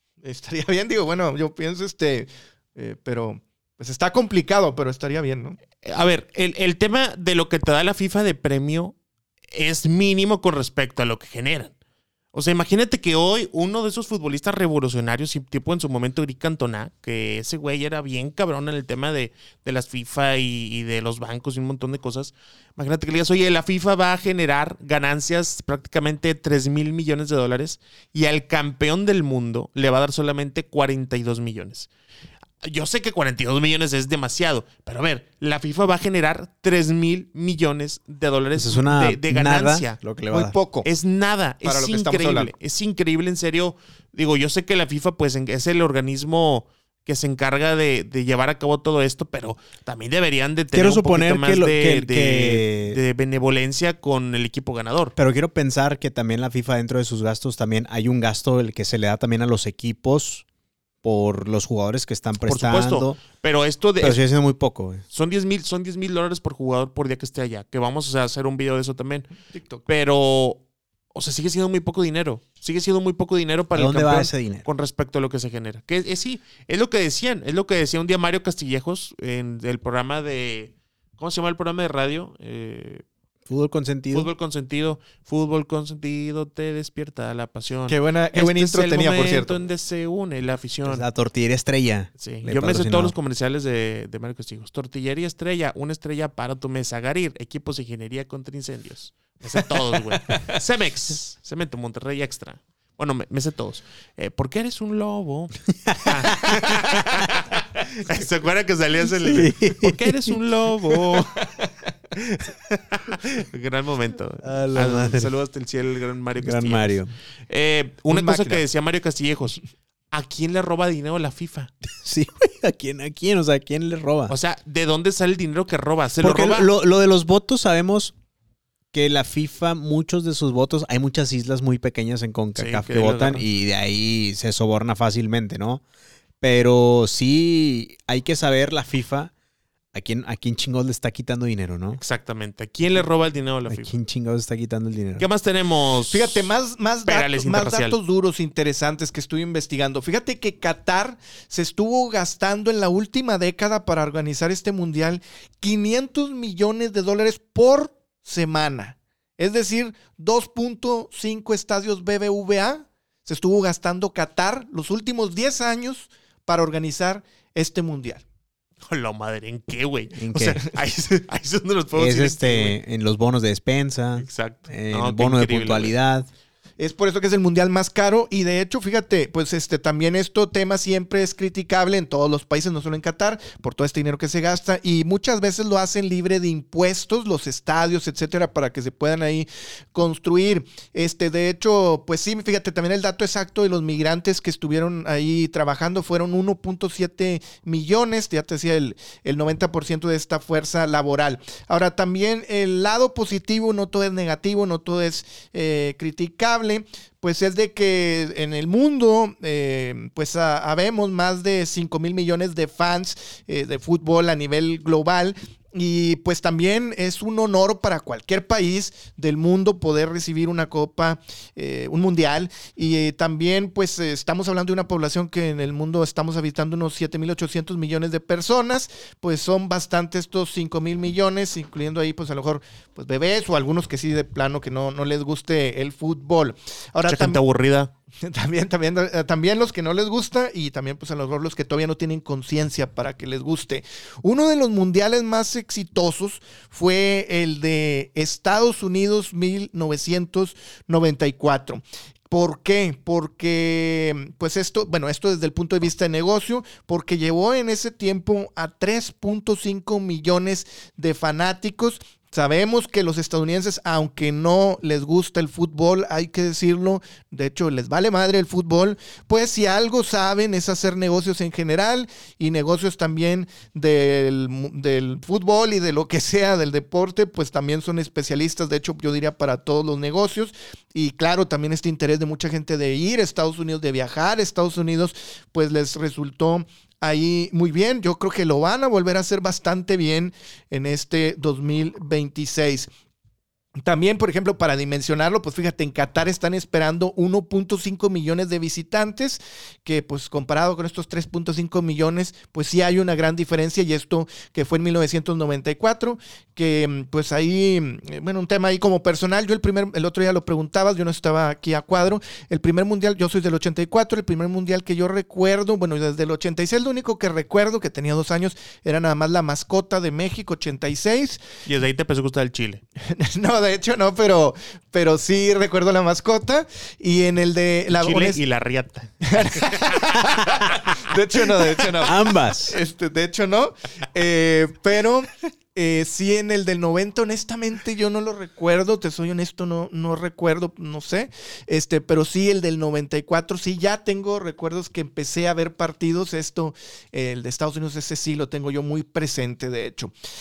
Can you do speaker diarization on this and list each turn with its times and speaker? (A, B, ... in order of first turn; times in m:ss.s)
0:00.2-0:05.6 A
0:05.8-0:08.9 B
0:09.5-0:11.7 B
0:12.3-0:31.9 B
0:32.6-0:40.0 B
0:38.5-0:40.6 C
0:40.3-0:40.9 A
0:40.8-0:55.1 B
0:41.6-0:42.5 A
0:50.7-0:53.0 C
0:55.2-1:00.4 C
1:01.0-1:03.2 C
1:02.5-1:04.2 B
1:04.0-1:05.0 C
1:05.1-1:09.3 B
1:09.5-1:09.8 A
1:09.9-1:10.6 B
1:11.1-1:23.0 B
1:13.7-1:14.6 C
1:23.5-1:24.3 C
1:24.1-1:31.0 B
1:27.9-1:29.6 A
1:30.8-1:33.1 C
1:32.2-1:51.4 B
1:45.9-1:46.7 C
1:49.2-1:50.4 C
1:52.9-1:59.6 B
1:54.4-1:55.3 C
1:56.4-1:57.1 C
1:58.1-1:58.6 A
2:00.1-2:01.7 B
2:02.0-2:04.4 C
2:04.3-2:06.7 B
2:06.2-2:08.1 C
2:08.9-2:15.8 C
2:12.6-2:13.4 B
2:16.4-2:19.3 C
2:19.9-2:22.0 C
2:21.9-2:23.9 B
2:23.7-2:25.3 C
2:25.2-2:26.5 B
2:26.1-2:48.2 A
2:27.0-2:28.0 B
2:48.8-2:52.8 B
2:50.2-2:50.6 C
2:52.0-2:56.3 C
2:54.2-2:55.9 B
2:56.8-3:57.4 A
3:57.0-3:57.9 B
3:58.2-4:52.9 A
4:53.8-5:21.4 A
5:21.6-5:22.8 B
5:23.0-5:28.4 A
5:27.9-5:30.1 B
5:29.2-5:50.1 A
5:32.0-5:32.8 C